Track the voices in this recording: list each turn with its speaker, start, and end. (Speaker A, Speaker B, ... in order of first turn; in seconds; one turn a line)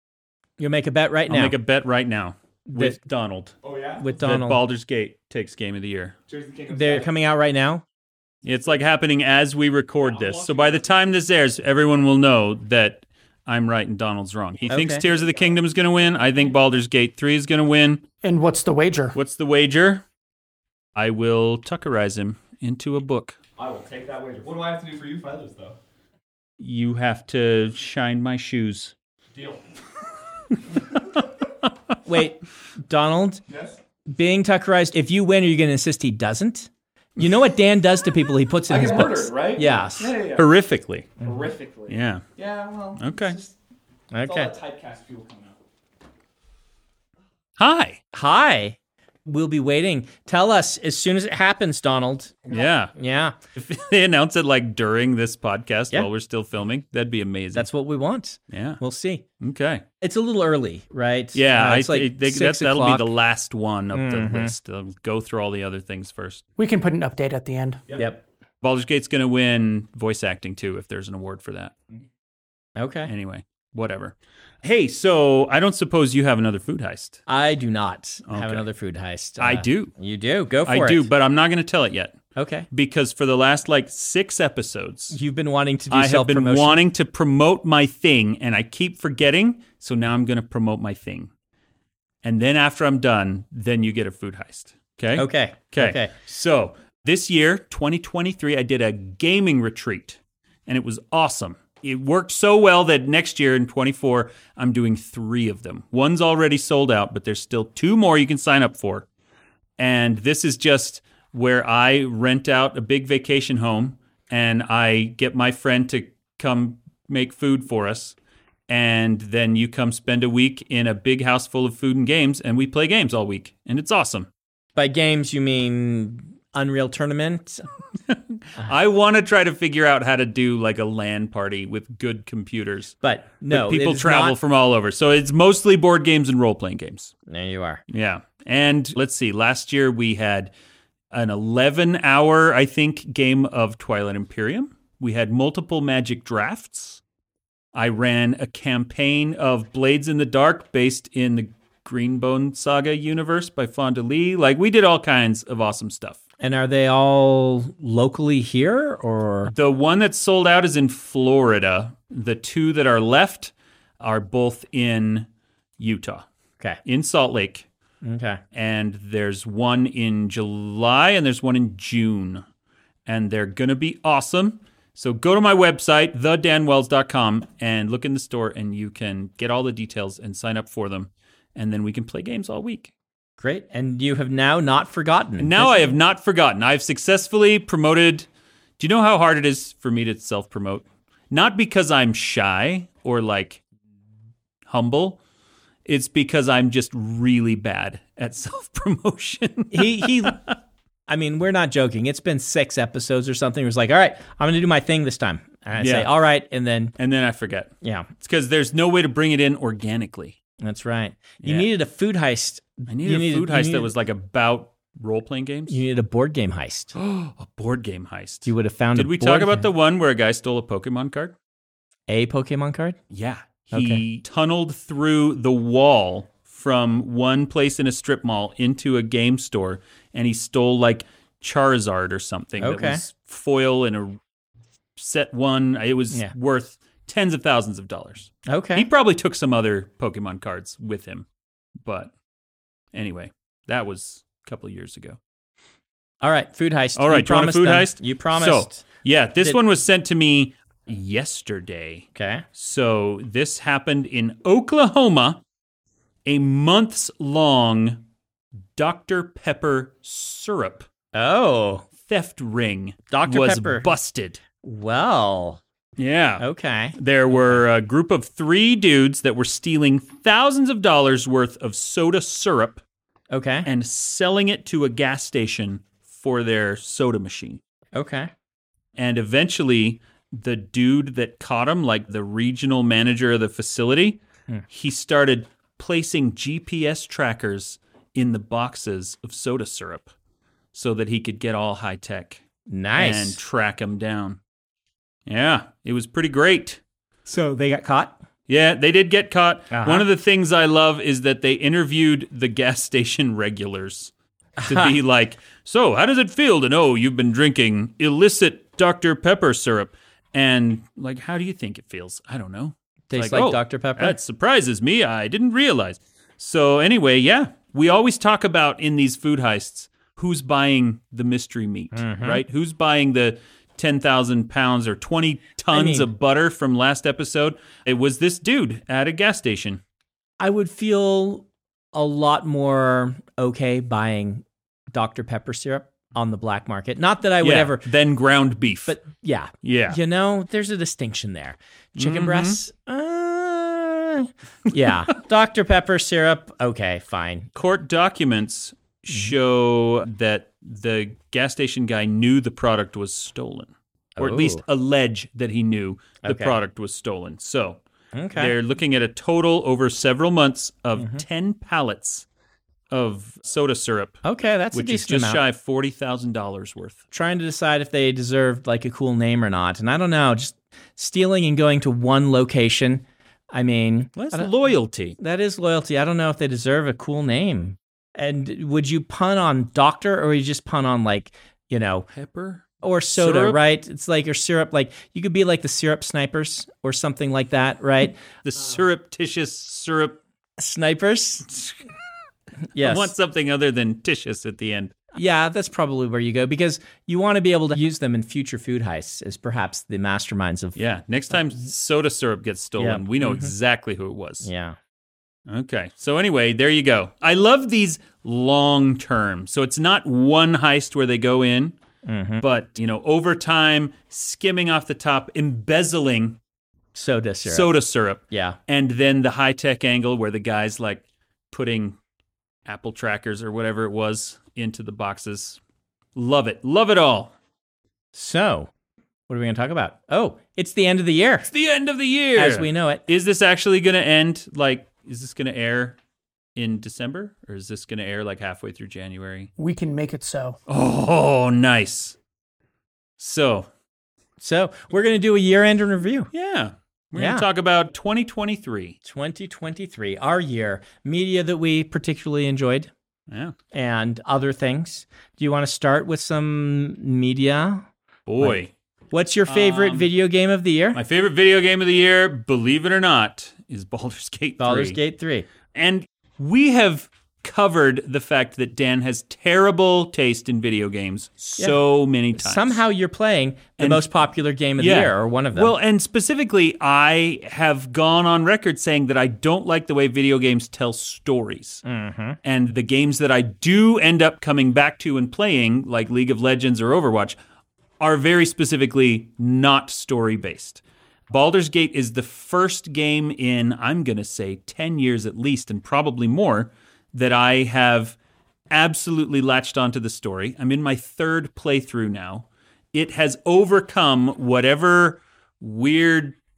Speaker A: 0.6-1.6
Speaker B: 1.3-3.5
Speaker A: 2.7-3.0
Speaker C: 3.6-4.1
Speaker A: 4.0-4.6
Speaker B: 4.1-6.2
Speaker C: 6.3-7.1
Speaker A: 6.7-7.8
Speaker B: 8.4-18.0
Speaker C: 10.0-11.1
Speaker A: 14.6-15.0
Speaker C: 14.9-15.6
Speaker D: 18.2-19.1
Speaker B: 19.1-20.0
Speaker B: 20.9-23.4
Speaker C: 23.6-25.8
Speaker B: 26.6-28.9
Speaker C: 29.3-29.6
Speaker A: 32.0-33.4
Speaker C: 33.5-33.8
Speaker A: 34.1-40.1
Speaker C: 38.7-40.5
Speaker B: 40.3-41.2
Speaker C: 41.2-43.5
Speaker B: 41.9-42.2
Speaker B: 43.0-43.4
Speaker A: 44.1-44.5
Speaker C: 44.2-45.5
Speaker B: 47.6-48.0
Speaker A: 48.1-53.4
Speaker B: 52.5-52.9
Speaker B: 53.5-57.7
Speaker A: 57.5-59.2
Speaker B: 58.5-58.8
Speaker B: 59.4-59.8
Speaker A: 60.0-63.1
Speaker B: 61.3-66.4
Speaker A: 63.9-64.5
Speaker D: 66.6-67.8
Speaker A: 67.9-68.2
Speaker B: 68.6-71.7
Speaker A: 72.8-73.1
Speaker B: 73.0-77.2
Speaker A: 77.3-81.1
Speaker B: 78.2-78.6
Speaker B: 79.4-79.9
Speaker B: 80.6-82.2
Speaker A: 82.3-82.7
Speaker B: 82.7-85.2
Speaker A: 85.1-86.8
Speaker B: 85.9-91.3
Speaker B: 92.2-109.1
Speaker A: 95.2-96.1
Speaker B: 109.8-118.2
Speaker B: 118.7-124.3
Speaker A: 124.8-127.7
Speaker B: 128.1-132.9
Speaker A: 133.0-134.4
Speaker B: 133.5-137.1
Speaker A: 137.3-137.8
Speaker B: 137.9-140.5
Speaker B: 141.1-147.0
Speaker B: 147.7-156.2
Speaker A: 156.4-159.5
Speaker B: 159.5-165.3
Speaker B: 165.8-166.2
Speaker B: 166.8-167.7
Speaker A: 168.0-168.4
Speaker B: 168.5-172.4
Speaker B: 173.1-182.9
Speaker A: 183.4-185.9
Speaker B: 185.4-188.3
Speaker B: 188.8-193.6
Speaker B: 194.7-195.2
Speaker B: 195.8-200.6
Speaker A: 199.7-200.4
Speaker A: 201.1-206.9
Speaker B: 205.8-206.1
Speaker B: 207.0-210.4
Speaker A: 207.8-208.1
Speaker A: 210.6-213.9
Speaker B: 211.4-211.7
Speaker B: 212.9-215.8
Speaker A: 215.7-216.9
Speaker B: 216.9-221.3
Speaker A: 218.4-219.7
Speaker A: 222.1-223.0
Speaker B: 223.1-234.2
Speaker A: 223.7-224.0
Speaker A: 232.6-233.0
Speaker B: 234.9-241.3
Speaker A: 238.5-238.9
Speaker B: 241.8-242.1
Speaker B: 242.9-245.2
Speaker A: 246.2-248.8
Speaker B: 246.9-255.4
Speaker A: 252.1-252.4
Speaker B: 256.2-258.0
Speaker B: 258.8-260.9
Speaker A: 261.1-261.8
Speaker B: 262.0-264.4
Speaker A: 263.1-263.9
Speaker A: 264.6-265.6
Speaker B: 266.0-272.8
Speaker A: 266.4-267.6
Speaker A: 273.3-273.7
Speaker B: 273.6-277.6
Speaker A: 277.9-278.3
Speaker B: 278.9-290.1
Speaker B: 290.7-292.4
Speaker A: 292.7-293.4
Speaker B: 292.9-294.4
Speaker B: 295.3-296.8
Speaker A: 297.2-298.2
Speaker B: 298.5-304.1
Speaker A: 299.7-300.1
Speaker A: 304.6-305.0
Speaker B: 304.6-329.8
Speaker A: 313.1-314.2
Speaker A: 321.9-322.4
Speaker A: 325.7-326.1
Speaker A: 330.4-337.8
Speaker B: 337.4-339.0
Speaker A: 338.9-347.5
Speaker B: 339.6-340.0
Speaker B: 341.9-342.6
Speaker B: 347.5-357.8
Speaker A: 354.1-354.6
Speaker A: 356.2-356.6
Speaker A: 358.1-358.5
Speaker B: 358.4-362.3
Speaker A: 360.9-361.2
Speaker B: 362.9-367.0
Speaker A: 364.2-365.4
Speaker A: 367.1-374.5
Speaker B: 374.1-375.2
Speaker A: 375.2-382.1
Speaker B: 382.1-382.6
Speaker A: 382.8-388.2
Speaker B: 383.1-383.6
Speaker B: 388.4-390.2
Speaker A: 390.6-391.5
Speaker B: 391.5-391.8
Speaker A: 392.7-393.1
Speaker B: 392.7-394.9
Speaker A: 395.1-400.8
Speaker B: 400.8-404.5
Speaker A: 402.8-403.5
Speaker A: 404.4-404.8
Speaker B: 405.5-411.7
Speaker A: 412.0-412.4
Speaker B: 412.4-416.4
Speaker A: 416.9-417.7
Speaker B: 417.4-422.0
Speaker A: 418.3-418.6
Speaker B: 422.6-425.6
Speaker B: 426.1-427.3
Speaker A: 428.1-428.7
Speaker A: 429.3-431.5
Speaker B: 431.5-436.0
Speaker A: 432.4-433.0
Speaker B: 436.5-439.5
Speaker D: 439.6-440.6
Speaker B: 440.7-442.1
Speaker B: 443.2-443.7
Speaker A: 444.4-446.3
Speaker B: 446.3-449.0
Speaker A: 447.1-447.4
Speaker A: 449.0-452.9
Speaker B: 453.3-453.5
Speaker A: 453.7-457.9
Speaker B: 458.3-458.7
Speaker A: 458.4-461.0
Speaker B: 459.5-460.1
Speaker B: 460.9-465.0
Speaker A: 464.6-465.5
Speaker B: 465.7-472.8
Speaker A: 472.3-475.7
Speaker B: 473.8-474.0
Speaker B: 474.8-481.8
Speaker A: 481.8-482.4
Speaker B: 482.4-487.4
Speaker B: 488.0-498.1
Speaker B: 498.7-506.4